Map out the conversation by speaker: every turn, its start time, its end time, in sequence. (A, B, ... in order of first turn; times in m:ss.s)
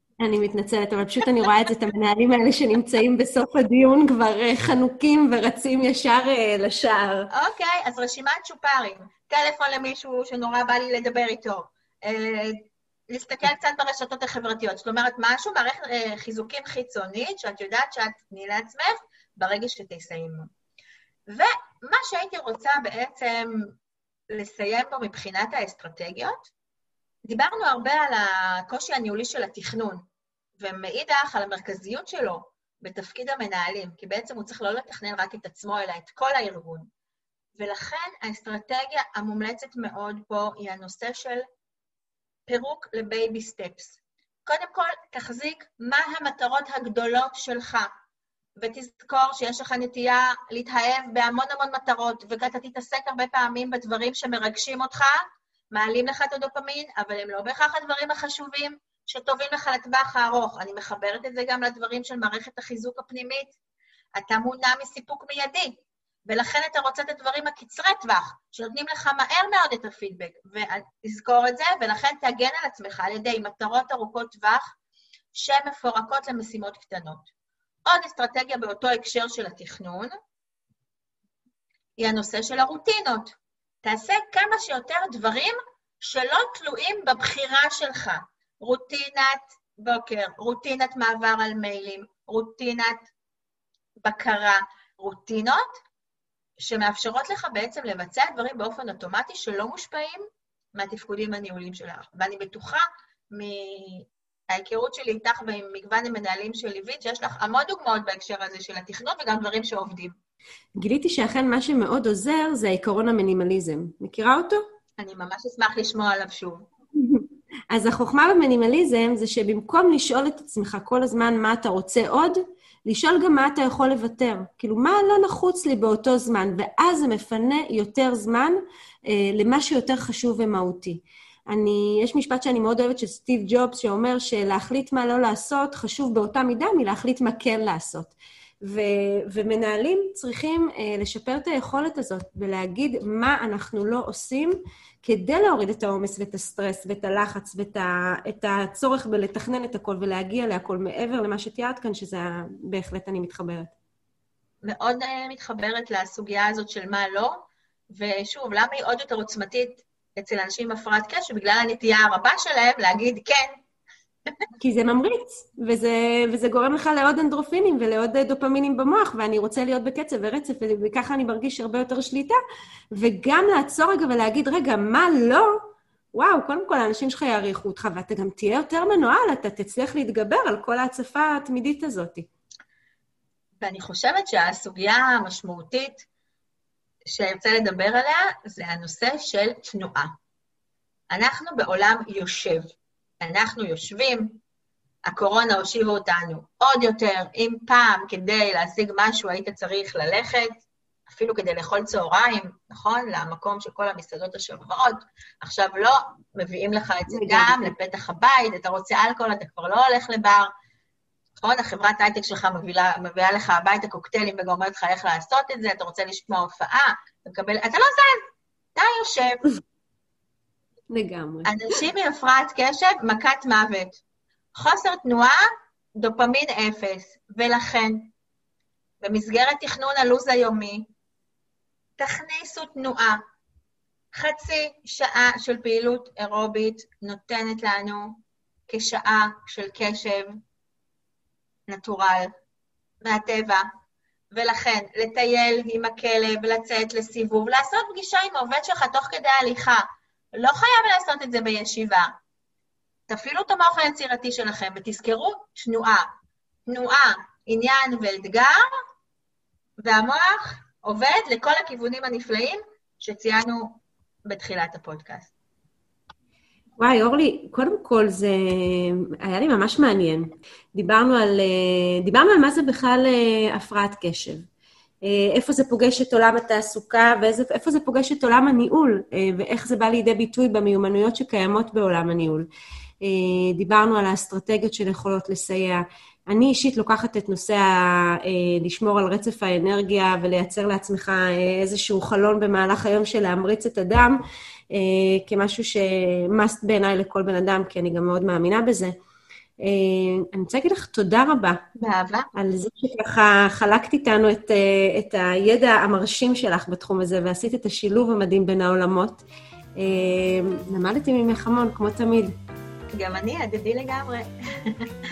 0:00.2-0:07.3 A
0:07.3-0:20.5 B
0:21.3-0:23.7 B
0:24.3-0:26.5 B
0:27.2-0:30.0 B
0:30.6-0:36.9 B
0:37.6-0:41.4 B
0:42.5-0:47.9 B
0:48.6-0:55.2 B
0:55.7-1:03.5 B
1:04.2-1:14.7 B
1:15.3-1:17.3 B
1:17.9-1:20.1 B
1:22.0-1:33.1 B
1:34.0-1:35.8 B
1:36.6-1:40.2 B
1:40.8-1:50.2 B
1:50.8-1:54.6 A
1:55.0-1:56.7 B
1:57.0-2:33.7 A
2:34.6-2:43.5 B
2:44.6-2:52.4 A
2:52.9-2:55.6 A
2:56.1-3:02.3 A
3:03.6-3:06.1 B
3:07.1-3:10.1 B
3:11.1-3:12.6 B
3:13.2-3:14.4 B
3:15.1-3:20.5 B
3:21.1-3:30.5 B
3:27.1-3:27.6 A
3:31.4-3:38.2 B
3:38.8-3:39.4 B
3:40.9-3:41.5 A
3:41.5-3:44.0 B
3:44.6-3:45.4 B
3:46.0-3:48.1 B
3:49.0-3:50.9 B
3:52.0-3:53.2 B
3:54.1-4:00.4 B
4:01.7-4:02.3 B
4:03.0-4:03.7 B
4:04.3-4:12.1 B
4:13.1-4:16.1 B
4:16.7-4:18.6 B
4:19.8-4:25.3 B
4:26.8-4:34.4 A
4:35.0-4:42.5 A
4:43.0-4:54.2 A
4:54.7-4:59.0 A
4:59.6-5:01.6 A
5:01.8-5:02.3 B
5:02.4-5:09.2 A
5:09.8-5:12.4 A
5:12.9-5:14.8 B